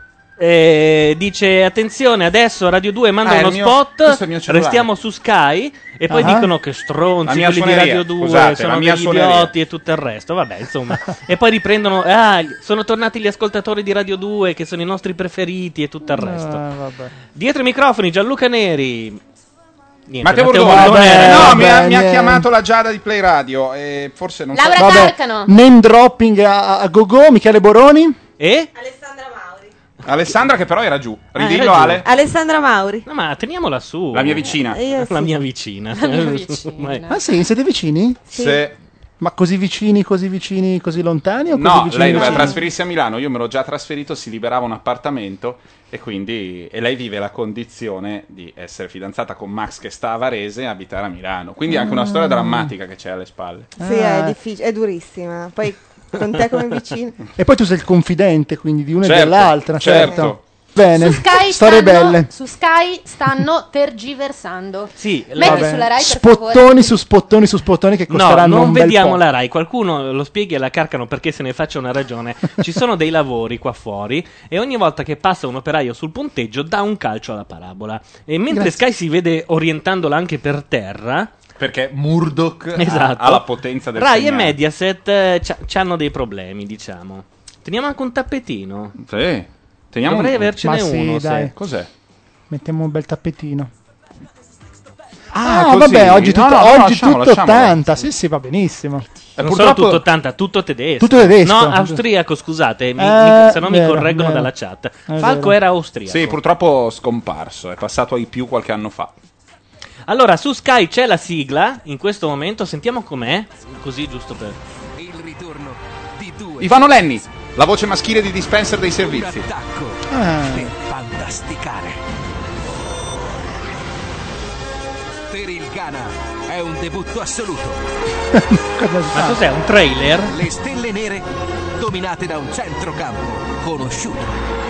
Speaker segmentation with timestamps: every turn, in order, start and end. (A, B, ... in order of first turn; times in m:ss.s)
0:00.4-0:16.6 A
0:03.2-0:04.9 B
0:06.1-0:06.5 C
0:07.2-0:09.5 B
0:16.1-0:17.1 C
0:17.4-0:19.2 A
0:20.1-0:21.7 A
0:20.2-0:25.2 B
0:20.6-0:22.5 C
0:24.5-0:25.5 D
0:24.8-0:28.2 C
0:28.4-0:28.7 A
0:28.8-0:29.7 E
0:30.0-0:32.1 B
0:31.4-0:32.1 A
0:32.0-0:33.1 E
0:33.0-0:37.1 A
0:34.1-0:34.8 B
0:34.6-0:35.3 E
0:35.9-0:37.2 D
0:37.1-0:38.3 C
0:38.3-0:38.8 B
0:38.3-0:38.6 E
0:39.2-0:42.6 C
0:41.5-0:53.8 B
0:51.9-0:52.2 C
0:53.8-0:54.4 C
0:53.8-0:57.2 E
0:57.4-1:02.3 C
0:59.0-1:00.4 B
0:59.9-1:00.1 E
1:00.9-1:06.9 D
1:05.0-1:05.8 A
1:05.4-1:09.2 C
1:08.1-1:21.3 A
1:18.5-1:18.8 C
1:21.6-1:24.6 B
1:22.8-1:29.0 A
1:29.0-1:30.5 B
1:30.0-1:31.5 A
1:30.6-1:31.5 C
1:31.6-1:31.9 B
1:32.5-1:33.7 C
1:35.3-1:37.8 B
1:35.4-1:39.1 C
1:39.4-1:40.0 B
1:39.4-1:46.4 A
1:41.0-1:42.0 C
1:43.0-1:44.5 C
1:45.1-1:45.6 C
1:46.1-1:49.2 B
1:50.1-1:54.6 A
1:55.0-1:56.9 F
1:56.6-1:59.5 B
1:59.0-2:02.0 F
2:00.1-2:00.7 C
2:05.3-2:07.8 F
2:08.3-2:09.5 C
2:09.1-2:10.4 A
2:10.3-2:11.3 F
2:11.8-2:14.4 F